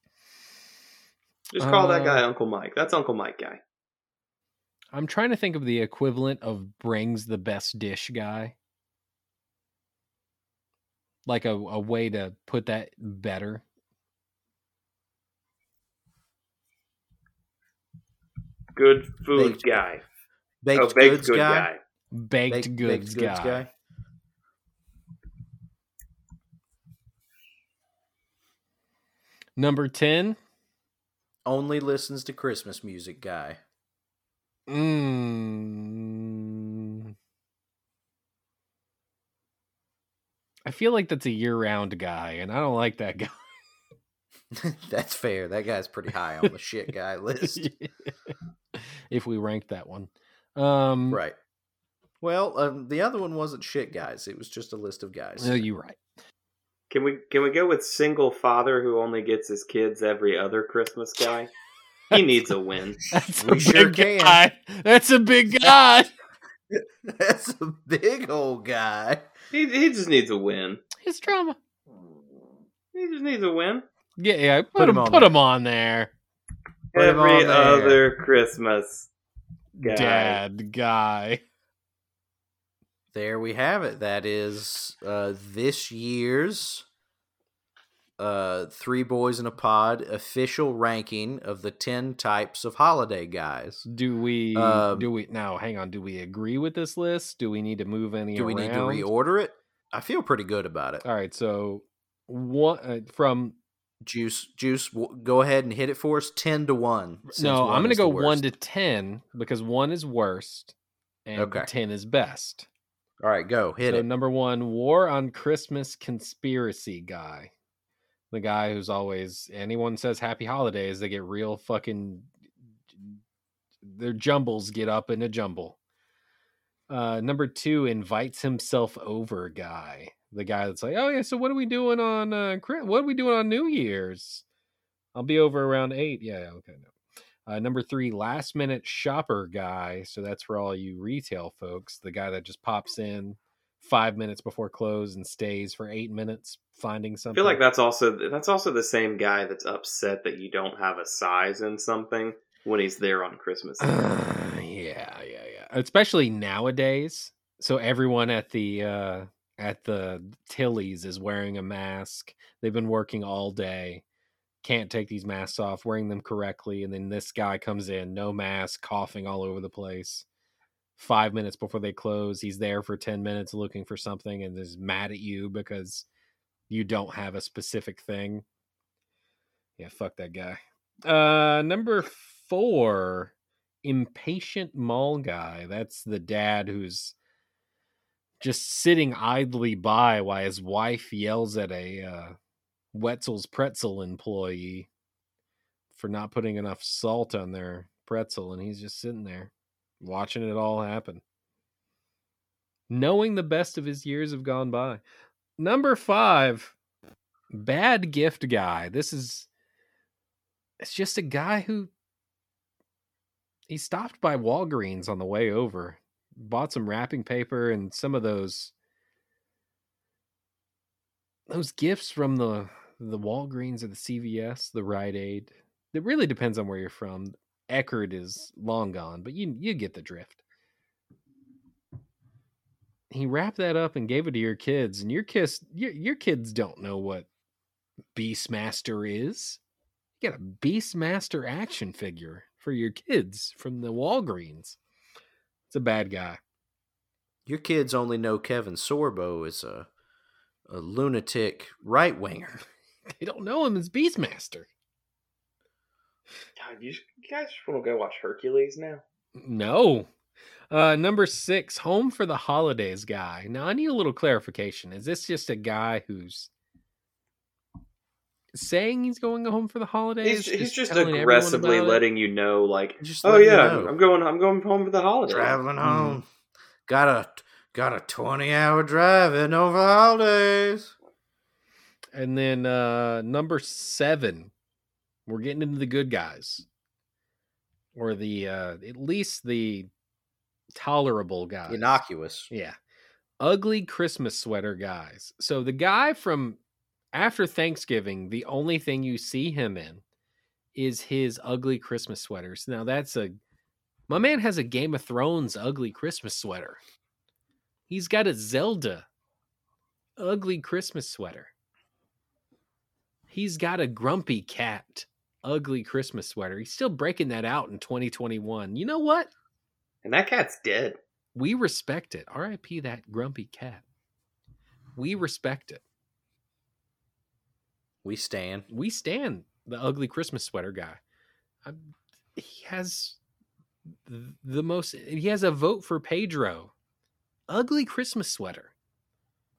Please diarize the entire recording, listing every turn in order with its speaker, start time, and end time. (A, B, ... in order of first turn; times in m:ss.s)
0:01.5-0:03.6 A
0:01.6-0:02.2 B
0:04.9-0:08.5 B
0:11.2-0:13.6 B
0:18.8-0:20.0 A
0:19.3-0:19.8 C
0:20.6-0:21.7 C
0:20.7-0:21.8 A
0:22.1-0:23.6 B
0:22.5-0:23.7 C
0:29.6-0:30.4 B
0:31.4-0:33.6 C
0:34.7-0:37.1 B
0:40.6-0:43.3 B
0:44.5-0:47.6 C
0:47.5-0:51.2 B
0:51.1-0:51.4 C
0:52.2-0:55.6 C
0:55.4-0:56.0 B
0:56.9-1:01.5 A
1:02.1-1:03.0 A
1:03.1-1:06.1 B
1:03.4-1:04.4 C
1:06.7-1:09.2 C
1:09.5-1:10.8 A
1:11.0-1:11.6 B
1:12.9-1:13.8 A
1:14.2-1:16.1 B
1:14.8-1:15.3 C
1:16.9-1:18.0 C
1:16.9-1:19.1 A
1:19.8-1:20.4 A
1:19.8-1:21.4 B
1:23.1-1:26.8 C
1:28.2-1:33.9 C
1:33.9-1:39.1 B
1:34.5-1:35.1 C
1:38.3-1:41.0 C
1:41.0-1:43.6 B
1:44.0-1:48.4 C
1:47.3-1:50.7 B
1:51.2-1:52.6 B
1:51.4-1:51.7 C
1:53.2-1:54.1 C
1:53.8-1:57.5 B
1:58.3-2:02.3 B
2:03.8-2:05.8 B
2:06.9-2:14.4 B
2:15.1-2:16.9 B
2:17.5-2:27.6 B
2:27.3-2:34.0 A
2:33.8-2:44.0 B
2:44.6-2:50.2 B
2:51.0-2:56.0 B
2:56.7-2:58.4 B
2:59.8-3:03.3 B
3:03.8-3:07.1 B
3:08.4-3:12.3 B
3:12.9-3:14.9 B
3:15.9-3:21.2 B
3:22.9-3:25.0 B
3:25.6-3:26.7 B
3:27.5-3:29.5 B
3:30.8-3:31.9 B
3:33.7-3:38.7 B
3:41.5-3:50.4 B
3:53.1-3:57.3 B
3:58.1-3:59.6 B
4:00.2-4:04.8 B
4:05.7-4:06.4 B
4:07.4-4:09.9 C
4:10.7-4:12.6 C
4:13.2-4:14.7 B
4:16.6-4:19.0 A
4:19.4-4:20.1 B
4:20.7-4:26.5 B
4:28.5-4:32.0 B
4:30.2-4:35.6 A
4:33.0-4:33.9 C
4:35.3-4:36.2 C
4:35.8-4:36.2 B
4:36.9-4:40.9 C
4:42.1-4:44.5 B
4:45.3-4:46.6 B
4:47.9-4:49.9 B
4:50.7-4:52.8 B
4:51.7-4:52.5 C
4:53.4-4:56.6 B
4:57.1-5:00.0 B
5:00.7-5:03.4 B
5:04.1-5:06.8 B
5:07.9-5:09.0 B
5:10.2-5:11.5 B
5:13.3-5:19.3 B
5:20.0-5:21.0 A
5:21.3-5:23.8 B
5:25.0-5:25.8 B
5:28.0-5:28.7 C
5:28.7-5:31.0 B
5:31.6-5:33.2 B
5:34.0-5:36.7 B
5:37.5-5:38.7 B